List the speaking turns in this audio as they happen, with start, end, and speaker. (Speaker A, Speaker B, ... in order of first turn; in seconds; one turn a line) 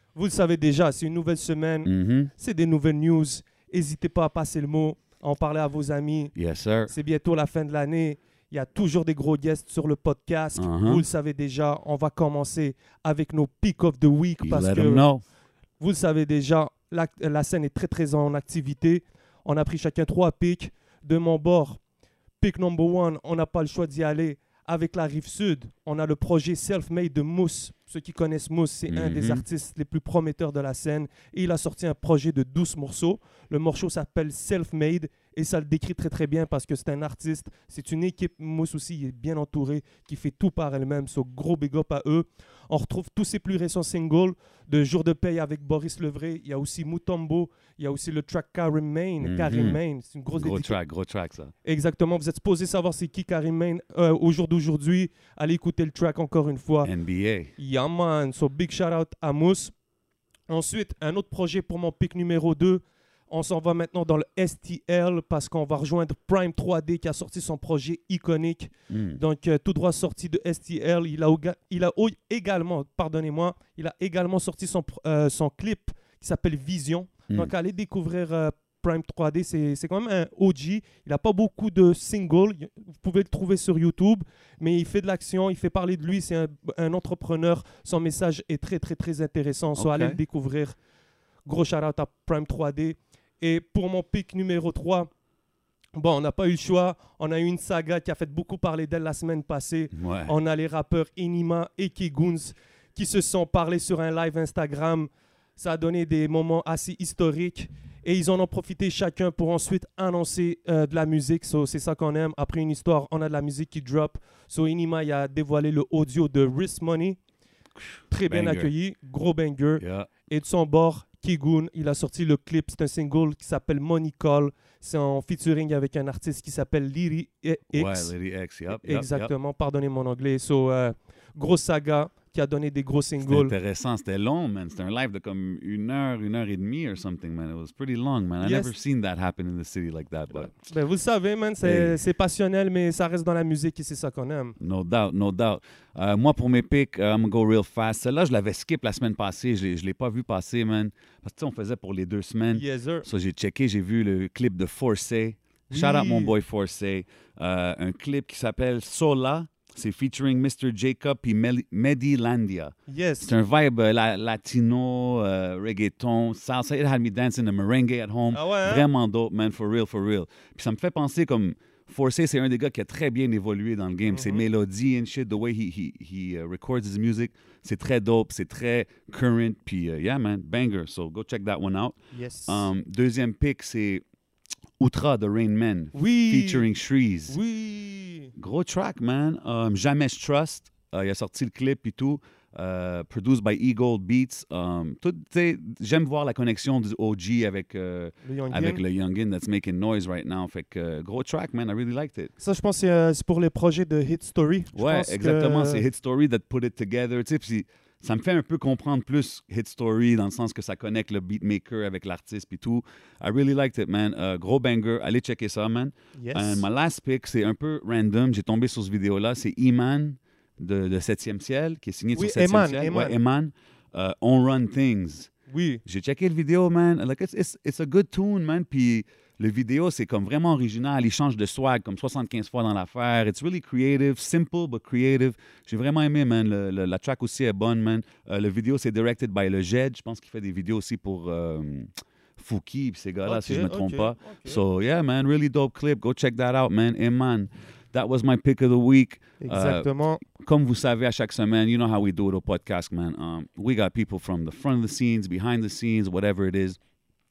Speaker A: 0.1-6.3
Speaker B: 1.8-2.3
Speaker B: 6.3-6.9
Speaker A: 6.9-15.1
Speaker B: 10.6-11.0
Speaker B: 14.4-15.2
Speaker A: 15.8-21.8
Speaker A: 22.4-50.7
Speaker B: 28.9-29.4
Speaker B: 49.2-49.8
Speaker B: 50.4-51.5
Speaker A: 51.6-56.9
Speaker B: 56.8-57.5
Speaker A: 57.6-59.7
Speaker A: 60.5-90.8
Speaker B: 68.9-69.2
Speaker B: 89.8-90.2
Speaker A: 91.5-95.1
Speaker A: 95.9-117.2
Speaker B: 99.9-100.3
Speaker B: 117.8-118.7
Speaker A: 118.1-128.1
Speaker B: 119.8-120.1
Speaker B: 127.7-129.3
Speaker A: 128.8-133.5
Speaker B: 133.2-140.5
Speaker A: 138.4-138.8
Speaker A: 140.3-144.6
Speaker B: 141.6-142.0
Speaker B: 144.6-181.9
Speaker A: 152.5-153.0
Speaker A: 155.7-156.3
Speaker A: 162.9-163.3
Speaker A: 168.3-168.8
Speaker A: 174.1-174.4
Speaker A: 182.1-182.7
Speaker B: 182.5-184.0
Speaker B: 184.8-187.4
Speaker A: 185.9-186.6
Speaker A: 187.3-188.3
Speaker B: 188.4-202.3
Speaker A: 198.2-198.8
Speaker A: 202.4-205.8
Speaker B: 204.8-225.3
Speaker A: 216.1-216.6
Speaker A: 222.1-223.1
Speaker A: 225.5-225.8
Speaker B: 225.8-256.8
Speaker A: 243.2-244.6
Speaker A: 249.4-250.2